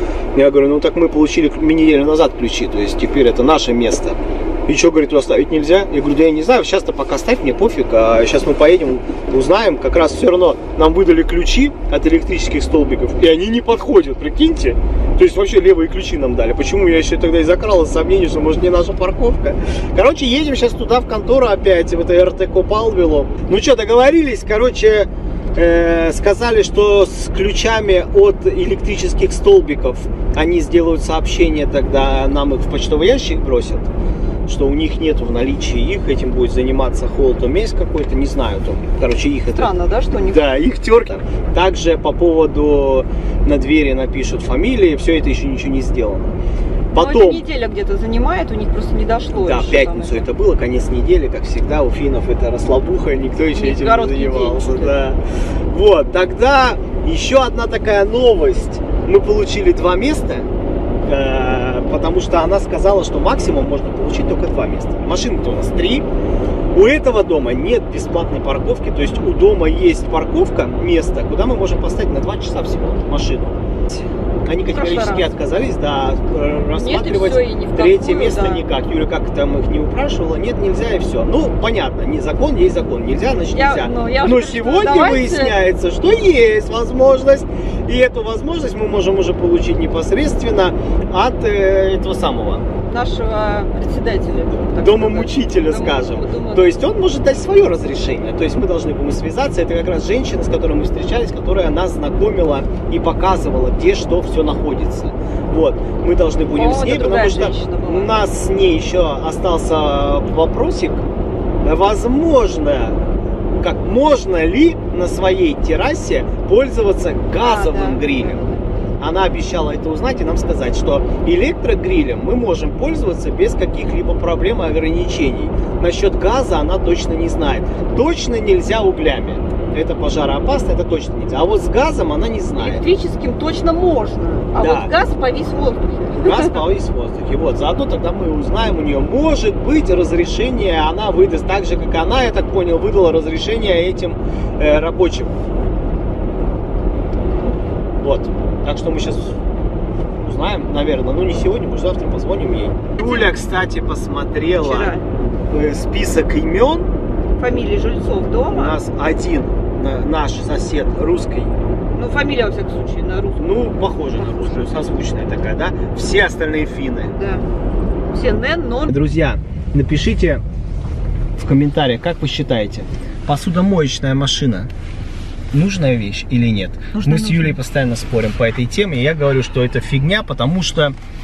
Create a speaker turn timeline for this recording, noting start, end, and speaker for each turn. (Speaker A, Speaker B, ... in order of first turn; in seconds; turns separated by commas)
Speaker A: 0.3-33.9, Speaker A: 34.5-46.3, Speaker B: 39.5-40.6, Speaker A: 46.9-47.4, Speaker B: 46.9-50.3, Speaker A: 49.3-60.5, Speaker B: 53.5-55.0, Speaker A: 61.1-66.1, Speaker A: 66.7-73.6, Speaker A: 74.5-92.7, Speaker B: 74.7-75.4, Speaker B: 76.7-78.7, Speaker B: 83.5-85.6, Speaker B: 92.9-96.8, Speaker A: 94.8-111.1, Speaker B: 106.5-108.2, Speaker A: 111.6-113.0, Speaker A: 113.6-118.4, Speaker B: 117.4-118.6, Speaker A: 119.0-132.8, Speaker B: 132.6-136.6, Speaker A: 134.6-134.9, Speaker A: 136.2-145.3, Speaker A: 148.0-149.4, Speaker A: 150.2-155.0, Speaker B: 153.0-153.3, Speaker B: 154.6-155.1, Speaker A: 155.5-156.9, Speaker B: 157.4-158.8, Speaker A: 158.5-161.6, Speaker B: 161.9-164.9, Speaker A: 163.4-167.1, Speaker B: 167.2-167.4, Speaker B: 168.1-169.0, Speaker A: 168.9-170.4, Speaker A: 171.4-174.7, Speaker A: 175.5-181.0, Speaker B: 176.9-177.6